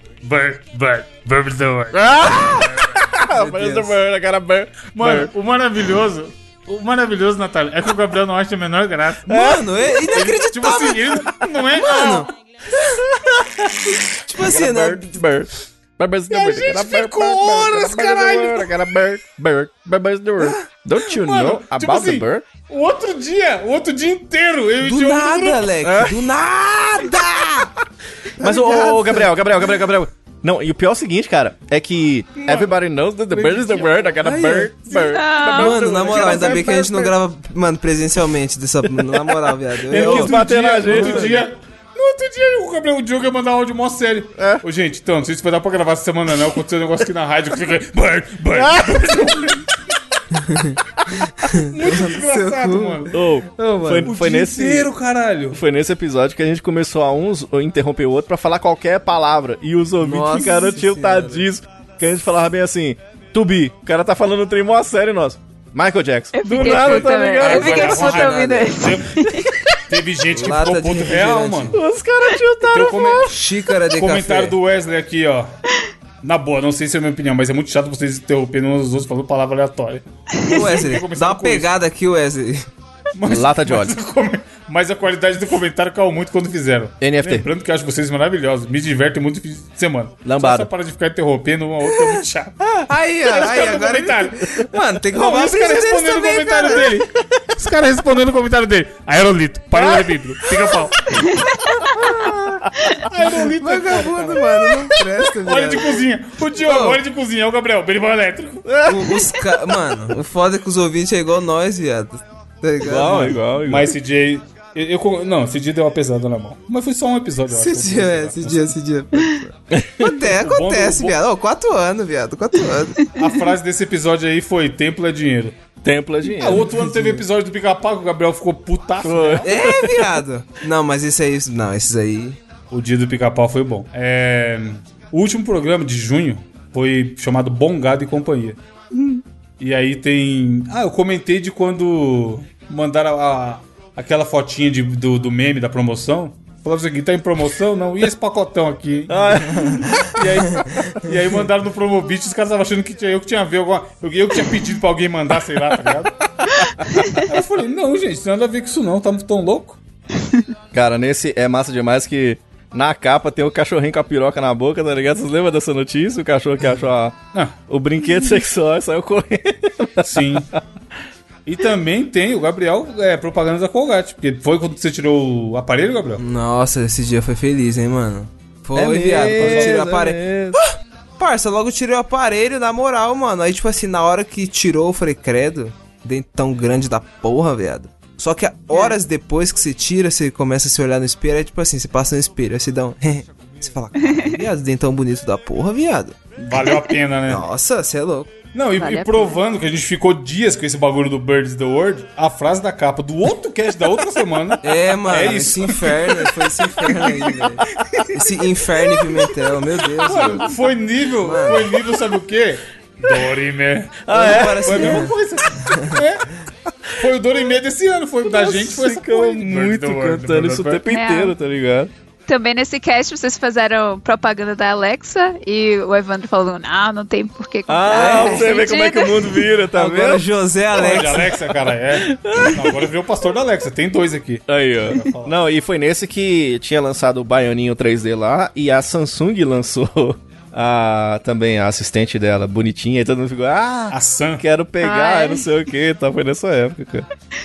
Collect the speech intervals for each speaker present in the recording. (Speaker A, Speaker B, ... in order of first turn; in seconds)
Speaker A: 0.2-3.1, 5.0-12.3, 16.3-18.8, 21.0-25.8, 36.0-36.4, 39.9-49.7, 51.5-53.2, 54.0-55.6, 66.5-71.8, 72.7-73.3, 74.0-75.6, 76.2-81.7, 83.1-101.3, 102.9-104.5, 105.4-108.7, 113.6-118.7, 120.1-121.2, 123.1-125.6, 126.4-129.5, 132.7-138.6, 139.6-156.1, 156.9-159.8, 170.0-170.5, 171.4-176.2, 179.3-179.7, 196.4-197.4, 198.5-208.2, 210.0-220.9, 230.7-235.3, 243.9-244.4
Speaker B: 1.9-5.3, 9.3-9.8, 12.8-22.5, 25.8-26.3, 27.0-27.6, 28.4-37.1, 38.9-41.5, 44.4-44.6, 48.5-49.2, 53.1-54.9, 55.5-68.2, 71.7-73.4, 83.3-84.0, 87.0-87.5, 90.2-90.7, 99.8-100.7, 101.9-102.8, 108.7-109.6, 112.8-113.9, 119.7-120.2, 125.8-126.7, 129.0-130.2, 149.1-150.1, 160.7-167.2, 167.7-170.6, 178.8-180.6, 214.1-215.1, 218.2-221.9, 227.7-230.3, 231.9-232.8, 234.5-247.1
Speaker C: 3.4-3.9, 9.3-13.0, 13.9-15.0, 24.8-27.7, 28.4-29.3, 32.4-32.7, 33.3-34.9, 35.5-40.3, 40.9-41.3, 50.3-54.1, 60.0-61.5, 67.6-68.9, 70.3-71.8, 73.2-74.6, 80.5-82.7, 91.9-92.3, 92.8-97.0, 103.2-106.0, 106.6-107.0, 108.8-113.4, 117.5-123.1, 126.4-127.2, 129.4-132.4, 176.2-196.2, 197.3-198.3, 204.6-210.5, 211.2-211.8, 214.1-216.0, 227.9-228.5, 229.7-231.4
Speaker D: 35.0-35.8, 66.3-69.6, 101.1-101.6, 194.1-194.4, 196.5-197.0, 198.8-199.4, 220.8-221.4, 222.3-229.5, 244.8-245.5